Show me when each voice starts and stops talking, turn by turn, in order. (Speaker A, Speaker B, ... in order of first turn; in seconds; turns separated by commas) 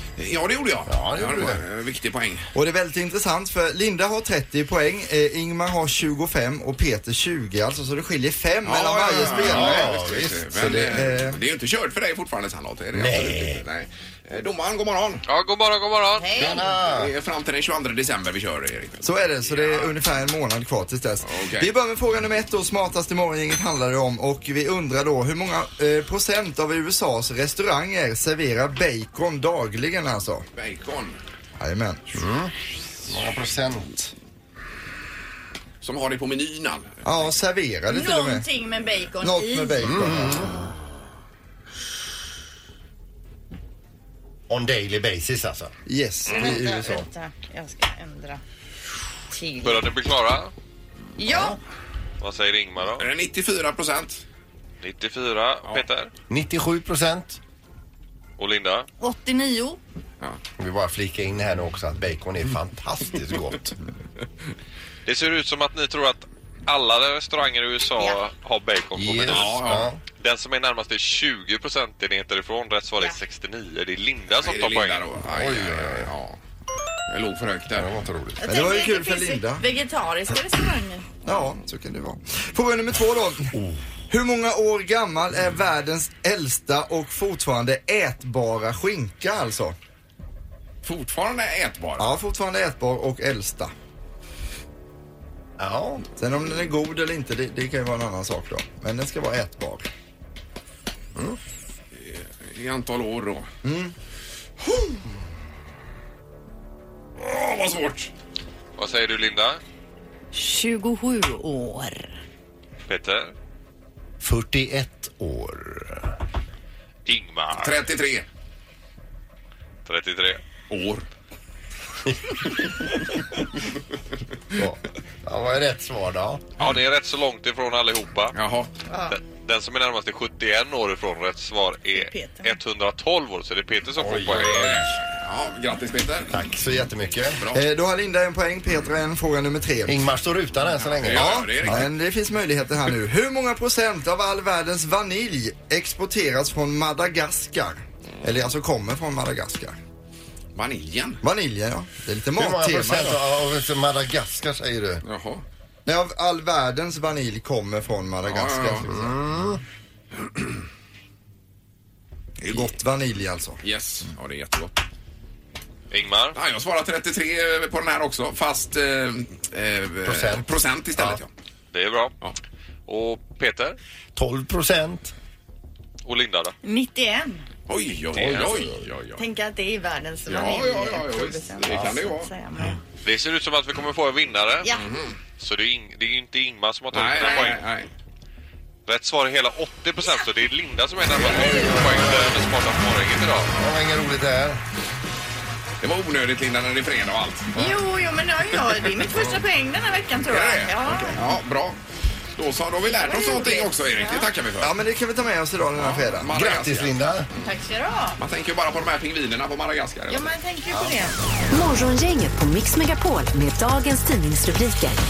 Speaker A: 0.2-2.5, Speaker B: 0.9-1.6, Speaker C: 2.5-9.9, Speaker A: 8.6-15.2, Speaker B: 9.3-10.5, Speaker C: 10.5-11.4, Speaker B: 12.9-13.6, Speaker D: 15.3-16.3, Speaker E: 16.2-16.7, Speaker B: 16.3-17.1, Speaker A: 16.8-19.9, Speaker C: 19.0-30.4, Speaker A: 21.2-21.7, Speaker A: 30.6-31.2, Speaker C: 31.6-32.0, Speaker B: 32.1-32.5, Speaker B: 33.0-34.1, Speaker A: 35.8-37.3, Speaker C: 37.0-38.5, Speaker E: 37.9-39.8, Speaker C: 39.2-40.5, Speaker B: 39.8-40.5, Speaker B: 44.5-45.7, Speaker C: 45.9-47.0, Speaker E: 46.3-48.4, Speaker A: 46.3-46.6, Speaker E: 49.3-49.9, Speaker D: 49.6-50.5, Speaker E: 51.2-51.6, Speaker D: 52.2-53.1, Speaker A: 53.0-54.2, Speaker D: 54.8-56.1, Speaker B: 56.3-57.4, Speaker D: 58.4-58.9, Speaker E: 59.0-59.8, Speaker B: 60.6-63.8, Speaker D: 65.0-75.0, Speaker B: 68.9-70.0, Speaker A: 69.3-69.9, Speaker A: 74.3-76.4, Speaker B: 75.2-76.1, Speaker A: 77.1-77.9, Speaker B: 77.7-78.4, Speaker E: 78.4-81.0, Speaker C: 78.4-79.6, Speaker C: 81.2-83.6, Speaker C: 84.1-89.8, Speaker A: 90.8-92.1, Speaker C: 92.0-93.7, Speaker B: 95.6-96.0, Speaker C: 96.2-99.9, Speaker A: 101.9-103.5, Speaker C: 103.6-103.9, Speaker A: 104.6-105.0, Speaker A: 107.2-108.1, Speaker D: 108.8-109.6, Speaker E: 110.3-112.1, Speaker D: 112.9-113.3, Speaker B: 114.2-116.1, Speaker D: 117.0-117.7, Speaker A: 117.6-118.2, Speaker D: 119.8-120.4, Speaker A: 120.7-121.0, Speaker B: 124.5-126.5, Speaker D: 126.6-128.3, Speaker A: 128.3-128.7, Speaker E: 128.9-129.2, Speaker D: 129.1-134.9, Speaker E: 131.9-132.5, Speaker A: 134.0-136.4, Speaker B: 136.3-137.4, Speaker C: 137.5-140.0, Speaker B: 139.8-141.8, Speaker A: 140.9-141.9, Speaker C: 141.1-149.8, Speaker A: 150.5-151.2, Speaker C: 151.2-153.1, Speaker B: 152.4-155.0, Speaker A: 155.0-155.4, Speaker C: 155.8-159.1, Speaker A: 158.3-158.9, Speaker B: 158.9-159.6, Speaker C: 162.4-163.6, Speaker A: 163.6-164.8, Speaker D: 165.9-166.4, Speaker A: 166.3-171.3, Speaker B: 170.0-171.2, Speaker D: 171.7-172.1, Speaker D: 172.9-173.8, Speaker B: 174.2-175.1, Speaker D: 176.0-176.5, Speaker E: 176.6-177.4, Speaker A: 177.7-179.2, Speaker B: 178.3-178.7, Speaker E: 179.2-182.8, Speaker A: 180.3-182.3, Speaker D: 183.0-184.7, Speaker A: 184.7-185.2, Speaker D: 185.3-187.6, Speaker A: 186.9-187.9, Speaker D: 188.8-193.5, Speaker B: 191.2-192.3, Speaker B: 193.6-194.6, Speaker A: 195.8-197.7, Speaker E: 197.5-201.2, Speaker A: 199.0-199.2, Speaker A: 200.3-201.8, Speaker A: 202.3-204.8, Speaker E: 203.0-204.2, Speaker C: 204.6-206.3, Speaker A: 205.8-207.2, Speaker B: 206.3-207.3, Speaker E: 207.4-208.2, Speaker A: 208.2-210.3, Speaker E: 210.1-211.2, Speaker B: 210.7-211.0, Speaker F: 211.5-215.0